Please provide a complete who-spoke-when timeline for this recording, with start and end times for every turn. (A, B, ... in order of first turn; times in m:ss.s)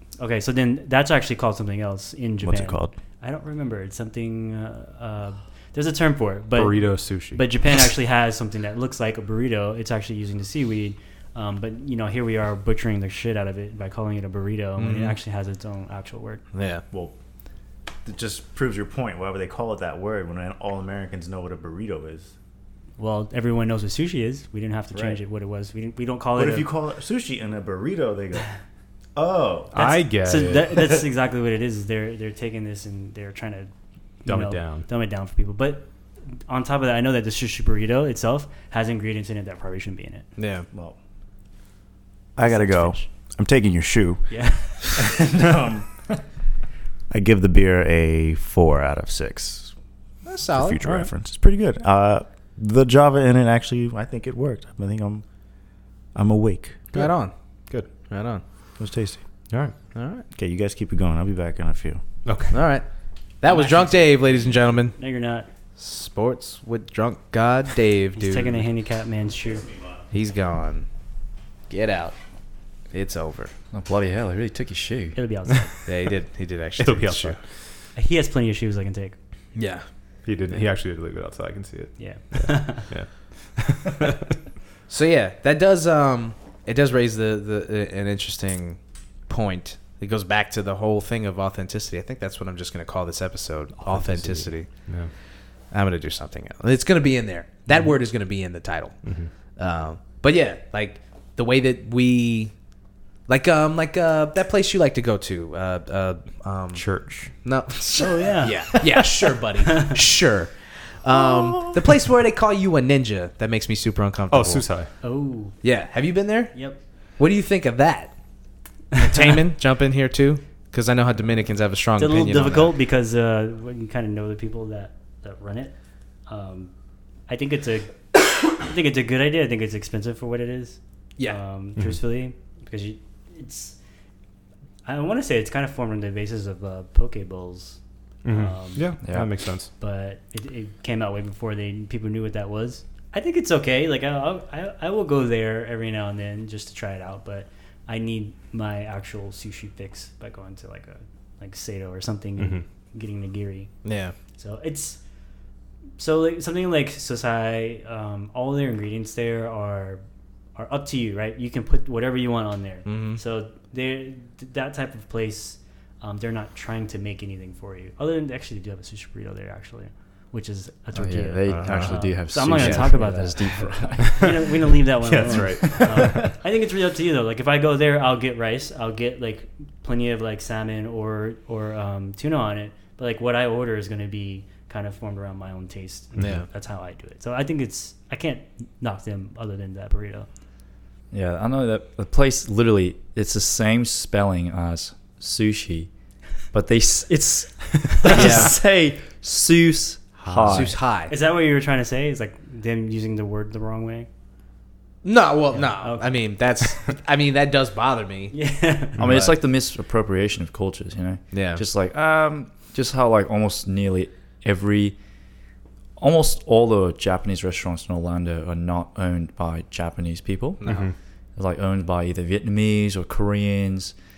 0:00.2-0:16.4 A
0:02.4-0:03.0 B
0:06.5-0:07.4 C
0:14.8-0:15.2 D
0:16.5-0:16.8 D
0:18.0-0:22.3 B
0:23.0-0:26.7 A
0:26.3-0:28.5 B
0:29.2-0:29.8 B
0:29.7-0:30.8 C
0:29.8-0:33.7 A
0:34.2-0:40.3 A
0:34.2-0:34.9 C
0:40.4-0:40.6 D
0:40.7-0:41.0 B
0:42.4-0:46.2 B
0:42.4-0:43.1 A
0:44.3-0:45.2 A
0:47.1-0:49.7 B
0:50.2-0:51.1 D
0:50.5-0:55.2 B
0:56.1-0:57.0 B
0:56.9-0:57.3 D
0:58.1-0:58.4 D
0:58.8-0:59.2 B
0:59.5-1:00.2 D
1:00.3-1:02.0 B
1:02.2-1:02.6 C
1:02.5-1:02.8 D
1:03.4-1:05.0 D
1:03.5-1:04.0 A
1:05.0-1:05.5 A
1:05.8-1:08.6 D
1:08.1-1:09.7 A
1:10.1-1:10.9 D
1:11.7-1:12.2 D
1:12.9-1:13.5 D
1:13.7-1:15.2 E
1:15.1-1:15.7 A
1:15.8-1:17.4 D
1:16.8-1:17.4 C
1:17.9-1:19.2 A
1:19.5-1:19.8 D
1:20.2-1:24.3 C
1:22.0-1:22.9 A
1:24.9-1:34.7 D
1:33.8-1:35.1 C
1:35.7-1:39.0 D
1:39.0-1:39.3 C
1:39.6-1:42.5 D
1:43.3-1:46.8 D
1:46.7-1:47.3 C
1:47.4-1:54.6 D
1:47.9-1:49.0 A
1:49.7-1:50.0 A
1:54.3-1:54.9 C
1:55.0-1:55.6 A
1:55.6-1:56.6 D
1:56.5-1:56.8 A
1:57.2-1:58.1 D
1:58.9-2:02.7 D
1:59.0-1:59.2 A
2:02.0-2:05.7 A
2:06.3-2:06.7 A
2:07.3-2:13.8 A
2:14.8-2:19.0 A
2:18.2-2:19.7 C
2:19.0-2:19.3 E
2:19.8-2:33.7 A
2:32.4-2:32.6 C
2:33.8-2:34.1 D
2:34.3-2:35.0 A
2:36.0-2:40.0 A
2:40.5-3:10.3 A
2:42.8-2:43.2 D
2:50.9-2:54.7 E
2:51.5-2:52.0 B
2:52.5-2:52.8 D
2:54.0-2:54.4 C
2:55.0-2:56.4 C
2:55.3-2:56.3 E
3:06.2-3:06.4 D
3:11.1-3:15.9 E
3:16.5-3:20.8 E
3:18.0-3:18.5 D
3:20.3-3:20.6 C
3:20.4-3:21.1 D
3:21.1-3:24.1 A
3:25.0-3:28.3 D
3:25.6-3:26.2 A
3:28.3-3:29.0 A
3:29.0-3:35.0 E
3:31.3-3:31.6 D
3:36.0-3:40.6 E
3:40.6-3:40.9 D
3:40.6-3:40.9 C
3:41.4-3:43.9 E